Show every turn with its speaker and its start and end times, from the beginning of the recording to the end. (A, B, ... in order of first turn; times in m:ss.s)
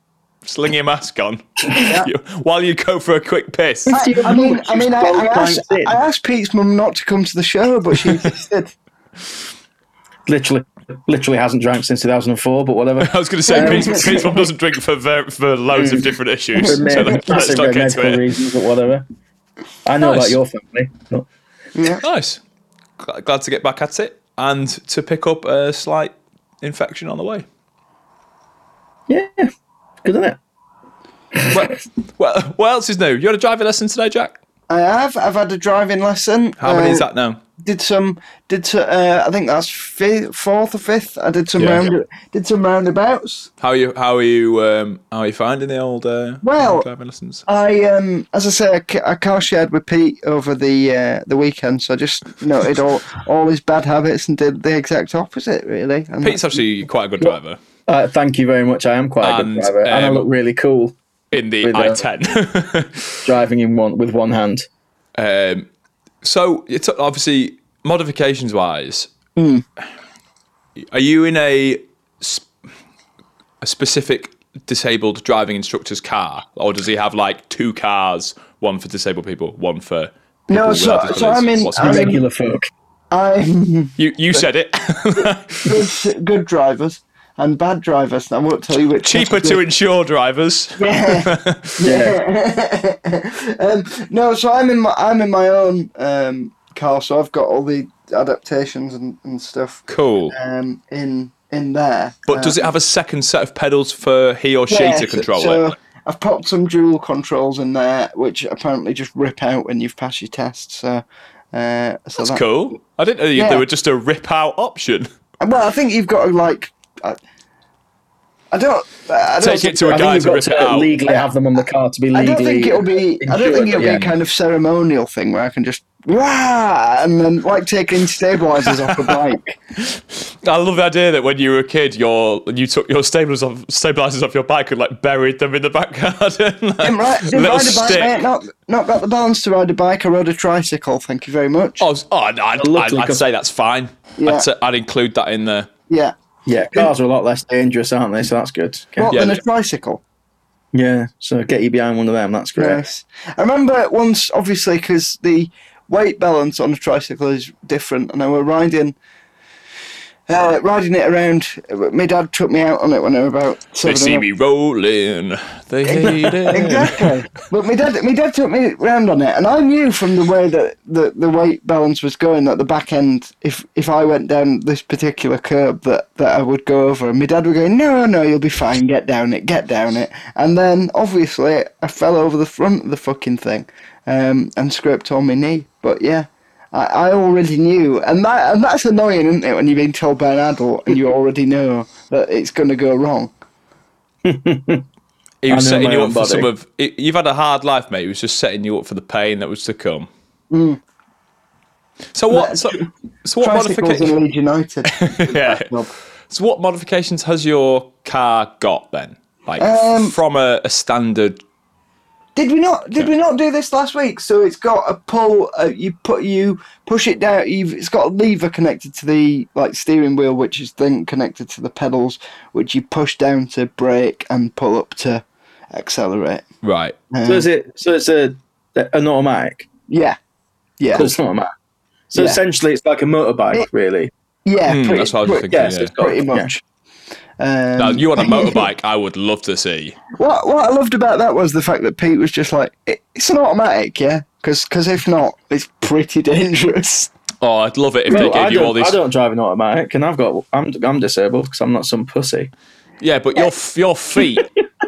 0:00.4-0:04.0 A
0:01.7-0:02.1 B
0:03.9-0:06.0 C
0:03.9-0:08.7 B
0:10.3-0:14.3 C
0:13.0-0:18.2 A
0:13.5-0:14.4 B
0:15.8-0:19.0 C
0:16.6-0:17.4 B
0:19.8-0:21.3 C
0:20.0-0:20.4 A
0:21.8-0:22.0 B
0:22.0-0:22.4 A
0:23.0-0:27.4 A
0:29.1-0:29.5 C
0:30.0-0:30.4 C
0:31.5-0:34.4 A
0:34.7-0:37.1 B
0:36.6-0:37.4 A
0:37.6-0:43.5 B
0:43.6-0:47.4 A
0:46.4-0:46.9 B
0:47.5-0:56.6 B
0:56.2-0:57.6 A
0:57.9-1:01.0 C
0:59.2-1:00.3 A
1:01.3-1:03.2 A
1:01.6-1:02.0 C
1:03.2-1:04.7 C
1:05.2-1:05.7 A
1:06.2-1:09.1 A
1:09.4-1:09.6 B
1:10.9-1:12.5 A
1:13.6-1:22.0 A
1:20.5-1:22.2 B
1:21.8-1:22.7 C
1:23.1-1:24.5 B
1:24.0-1:25.9 A
1:25.2-1:29.6 B
1:29.0-1:31.8 A
1:30.8-1:42.7 B
1:31.8-1:32.2 C
1:39.9-1:40.3 A
1:42.3-1:45.7 A
1:44.7-1:52.4 B
1:52.2-1:55.1 A
1:53.4-1:53.6 B
1:55.4-1:57.2 B
1:58.5-2:00.3 B
1:59.4-2:01.0 A
1:59.9-2:04.1 C
2:02.1-2:09.6 B
2:03.8-2:04.1 A
2:08.7-2:09.2 A
2:09.8-2:18.2 A
2:16.8-2:21.9 B
2:21.8-2:25.7 A
2:22.6-2:23.2 C
2:24.2-2:24.5 B
2:25.9-2:26.1 B
2:26.5-2:29.2 C
2:29.0-2:30.0 B
2:29.1-2:29.4 A
2:30.7-2:32.8 C
2:32.6-2:39.0 B
2:40.3-2:44.2 B
2:43.8-2:47.1 A
2:45.8-3:13.3 B
2:46.3-2:46.6 C
3:14.2-3:14.8 C
3:15.4-3:20.1 A
3:15.5-3:16.5 C
3:20.5-3:20.8 B
3:22.1-3:24.1 A
3:22.3-3:22.8 B
3:23.4-3:25.9 B
3:24.9-3:25.7 A
3:26.3-3:31.4 A
3:29.6-3:30.1 B
3:32.4-3:46.4 B
3:46.6-3:47.0 A
3:47.1-3:47.5 B
3:47.2-3:49.7 C
3:49.9-3:50.2 B
3:50.8-3:51.1 B
3:50.9-3:51.5 C
3:52.1-3:54.1 C
3:54.5-3:56.5 B
3:54.7-3:55.9 A
3:55.5-3:56.6 C
3:57.4-3:58.7 B
3:57.8-4:00.0 A
4:00.2-4:07.1 B
4:07.4-4:09.0 A
4:08.1-4:12.5 C
4:13.0-4:14.5 A